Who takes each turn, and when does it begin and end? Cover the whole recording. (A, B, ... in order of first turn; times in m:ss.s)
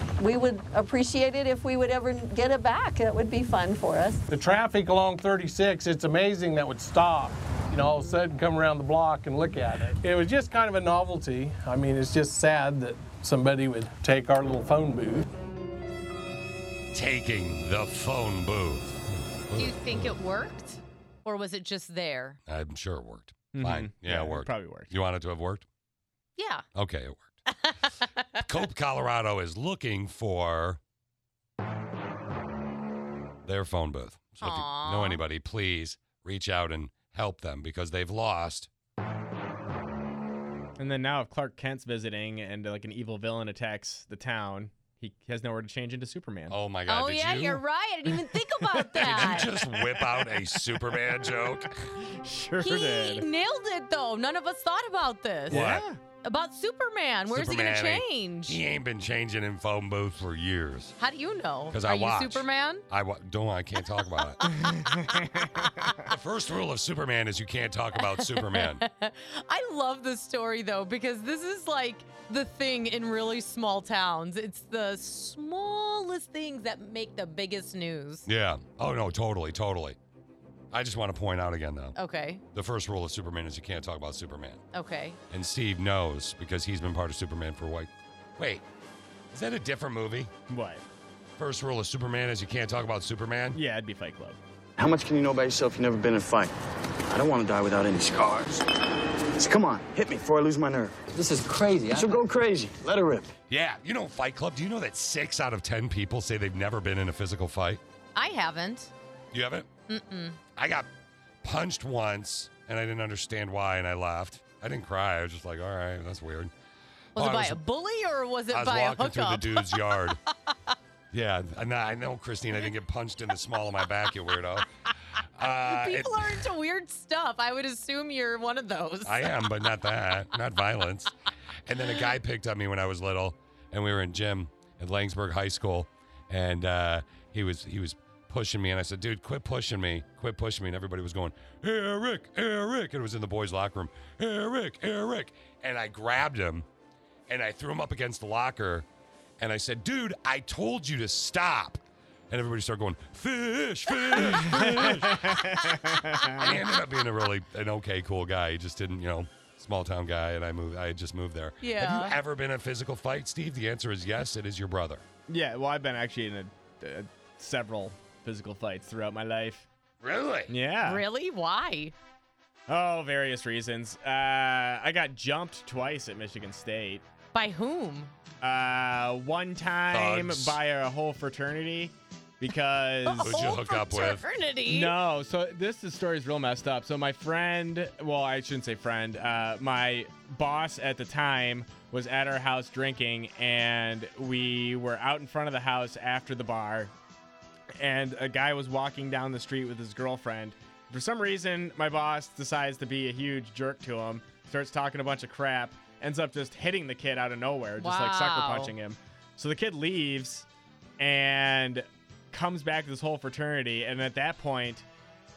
0:00.2-0:04.2 A
0:04.3-0:15.2 B
0:16.9-0:20.1 C
0:19.6-0:22.4 D
0:22.5-0:25.6 C
0:23.5-0:24.9 E
0:26.4-0:26.6 D
0:26.7-0:27.4 C
0:27.6-0:28.4 D
0:28.4-0:30.8 C
0:33.4-0:38.7 C
0:34.4-0:35.2 D
0:40.8-0:46.6 E
0:46.5-0:47.6 C
0:46.9-0:49.5 D
0:48.9-0:51.7 C
0:49.0-0:53.2 E
0:52.6-0:55.7 D
0:55.5-0:55.8 C
0:55.5-0:56.0 E
0:56.2-0:58.6 D
0:57.3-1:01.0 C
1:01.0-1:02.8 D
1:01.7-1:04.4 C
1:04.4-1:06.0 E
1:06.0-1:08.8 C
1:08.0-1:18.3 D
1:18.2-1:20.0 C
1:20.7-1:22.0 C
1:22.0-1:22.4 D
1:22.5-1:24.6 C
1:24.7-1:25.2 D
1:25.3-1:28.6 C
1:29.3-1:30.3 C
1:30.5-1:30.8 E
1:31.4-1:33.6 C
1:33.5-1:34.4 E
1:34.8-1:36.5 F
1:37.1-1:38.6 F
1:39.4-1:41.2 F
1:41.8-1:43.3 F
1:43.5-1:47.8 C
1:48.2-1:48.9 D
1:49.3-1:49.7 C
1:49.9-1:50.4 D
1:50.6-1:50.9 C
1:51.4-1:56.5 C
1:57.2-1:57.6 C
1:57.2-2:00.0 D
1:58.5-2:00.2 C
2:01.1-2:04.6 C
2:05.4-2:06.4 C
2:05.4-2:09.5 D
2:09.0-2:11.1 C
2:11.6-2:26.6 C
2:27.3-2:28.9 C
2:29.4-2:35.4 C
2:34.2-2:36.5 E
2:36.4-2:45.0 C
2:41.6-2:42.2 D
2:45.3-2:49.6 E
2:50.0-2:50.5 C
2:50.5-2:51.0 E
2:50.8-2:51.9 D
2:52.7-2:57.0 E
2:57.3-2:58.1 D
2:58.4-3:03.4 E
2:59.9-3:00.6 C
3:03.0-3:04.9 D
3:03.2-3:04.2 C
3:04.7-3:16.9 E
3:17.8-3:30.5 E
3:27.8-3:28.7 D
3:31.0-3:34.8 E